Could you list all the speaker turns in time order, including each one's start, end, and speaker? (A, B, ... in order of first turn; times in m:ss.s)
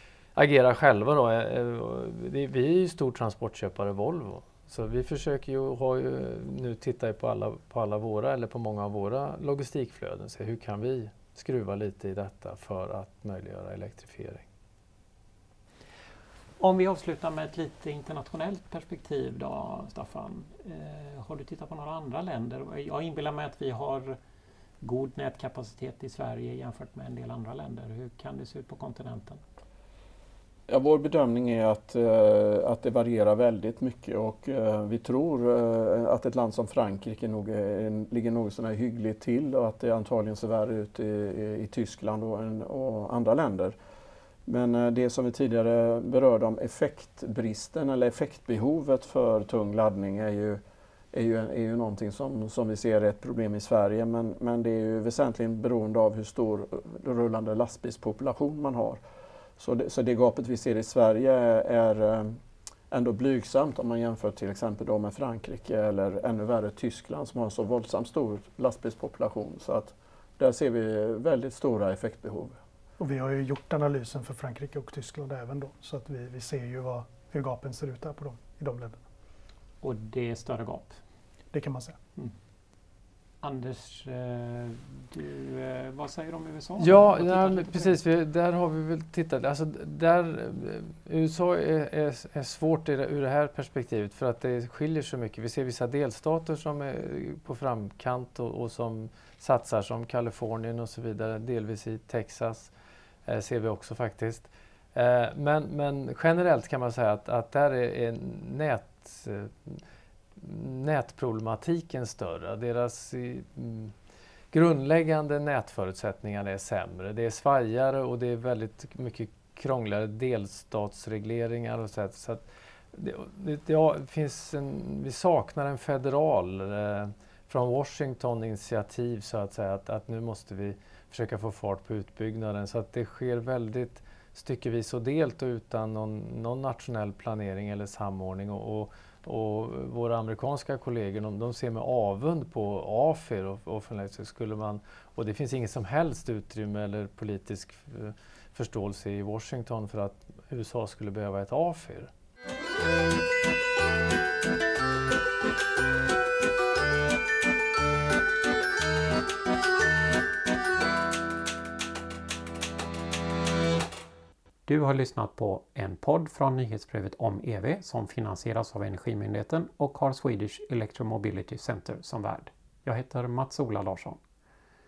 0:00.3-0:14.4 A
0:16.6-0:24.2 B
0:24.8-0:29.4 B
0:30.7-0:43.8 C
0:44.4-0:50.6 C
0:51.1-0:59.0 C
0:59.6-1:02.4 C
1:02.9-1:12.6 C
1:13.0-1:19.0 D
1:19.8-1:21.0 B
1:21.5-1:22.0 D
1:23.4-1:28.0 B
1:26.8-1:42.7 A
1:43.2-1:49.8 A
1:50.4-1:53.9 A
1:54.5-2:32.1 A
2:44.7-2:54.2 B